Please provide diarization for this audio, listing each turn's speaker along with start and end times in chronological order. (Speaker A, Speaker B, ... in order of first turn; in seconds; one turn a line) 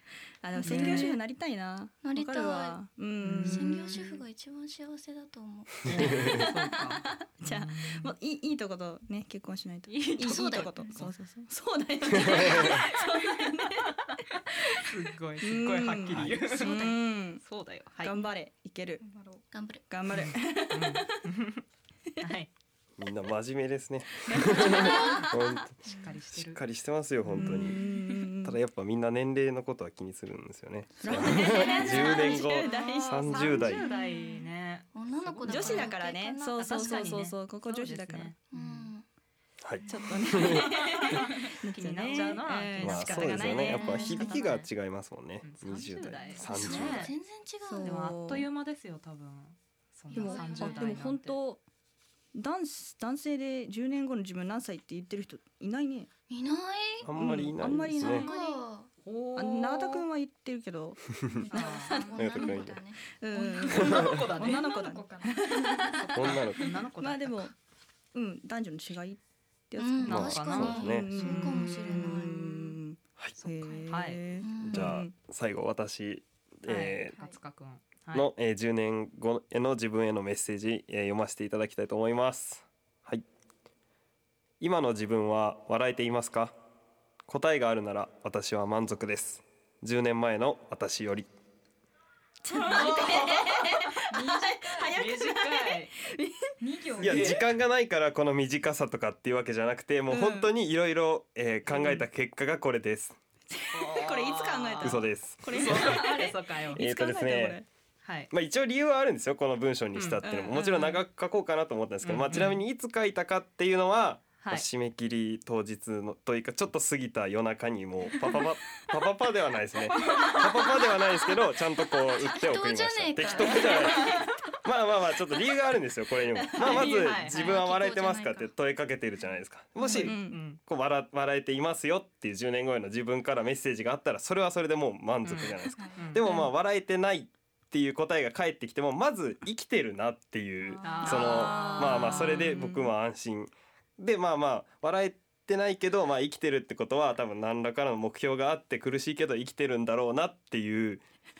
Speaker A: 0.4-3.9
Speaker B: 0.6-1.1
Speaker C: 2.0-2.8
Speaker B: 3.2-4.2
Speaker C: 3.4-6.3
Speaker B: 5.8-8.1
Speaker A: 6.0-17.4
Speaker B: 9.9-11.1
Speaker B: 12.2-12.9
Speaker B: 14.7-18.2
Speaker A: 18.0-19.0
Speaker D: 19.0-19.4
Speaker C: 19.5-19.8
Speaker A: 19.9-21.1
Speaker B: 20.1-21.6
Speaker B: 22.2-22.5
Speaker E: 23.0-25.8
Speaker A: 24.2-25.6
Speaker C: 24.8-25.2
Speaker B: 24.8-25.3
Speaker B: 25.8-26.6
Speaker D: 25.9-26.2
Speaker E: 26.3-27.8
Speaker B: 27.2-27.7
Speaker A: 27.3-28.6
Speaker E: 28.4-33.9
Speaker A: 31.0-33.6
Speaker B: 31.2-35.9
Speaker C: 31.9-32.4
Speaker C: 33.6-37.2
Speaker A: 35.5-38.3
Speaker B: 36.6-38.9
Speaker C: 38.5-39.0
Speaker E: 39.6-40.7
Speaker A: 39.9-44.4
Speaker B: 40.4-44.7
Speaker E: 42.8-47.1
Speaker C: 43.8-44.5
Speaker B: 45.4-47.1
Speaker C: 46.4-48.0
Speaker A: 47.6-48.5
Speaker B: 47.8-51.4
Speaker C: 50.1-50.8
Speaker A: 50.1-51.6
Speaker A: 52.3-56.1
Speaker C: 56.3-57.1
Speaker E: 57.0-58.2
Speaker A: 57.2-58.3
Speaker B: 58.0-58.5
Speaker C: 58.1-58.9
Speaker B: 59.0-60.0
Speaker A: 59.3-62.5
Speaker D: 61.4-62.4
Speaker B: 61.5-62.0
Speaker C: 61.9-63.0
Speaker E: 62.2-62.8
Speaker A: 63.1-67.5
Speaker D: 63.3-66.0
Speaker B: 63.7-64.7
Speaker B: 66.0-67.5
Speaker E: 66.2-66.6
Speaker A: 68.1-69.2
Speaker A: 69.7-75.1
Speaker C: 69.8-72.7
Speaker B: 70.0-72.2
Speaker E: 70.1-71.1
Speaker B: 73.4-74.2
Speaker C: 74.4-74.9
Speaker E: 74.6-77.2
Speaker B: 76.7-78.3
Speaker E: 78.1-83.2
Speaker E: 84.6-86.5
Speaker E: 87.3-91.3
Speaker A: 92.4-96.5
Speaker B: 92.5-93.9
Speaker D: 94.1-95.0
Speaker B: 94.9-95.9
Speaker D: 96.6-97.3
Speaker B: 97.0-97.4
Speaker E: 97.0-103.2
Speaker A: 100.1-100.5
Speaker B: 101.7-102.0
Speaker A: 103.5-107.7
Speaker B: 103.7-106.8
Speaker E: 104.8-106.0
Speaker E: 106.8-107.6
Speaker B: 108.0-108.3
Speaker E: 108.3-151.0
Speaker B: 109.9-111.0
Speaker A: 110.2-110.6
Speaker B: 112.0-112.6
Speaker B: 120.1-120.5
Speaker C: 122.2-124.0
Speaker B: 124.0-124.2
Speaker A: 126.3-126.9
Speaker B: 126.6-127.6
Speaker C: 127.3-128.4
Speaker A: 129.8-130.4
Speaker B: 129.9-130.6
Speaker B: 135.2-136.5
Speaker D: 135.8-136.1
Speaker D: 140.6-141.8
Speaker B: 140.8-142.8
Speaker A: 141.0-142.9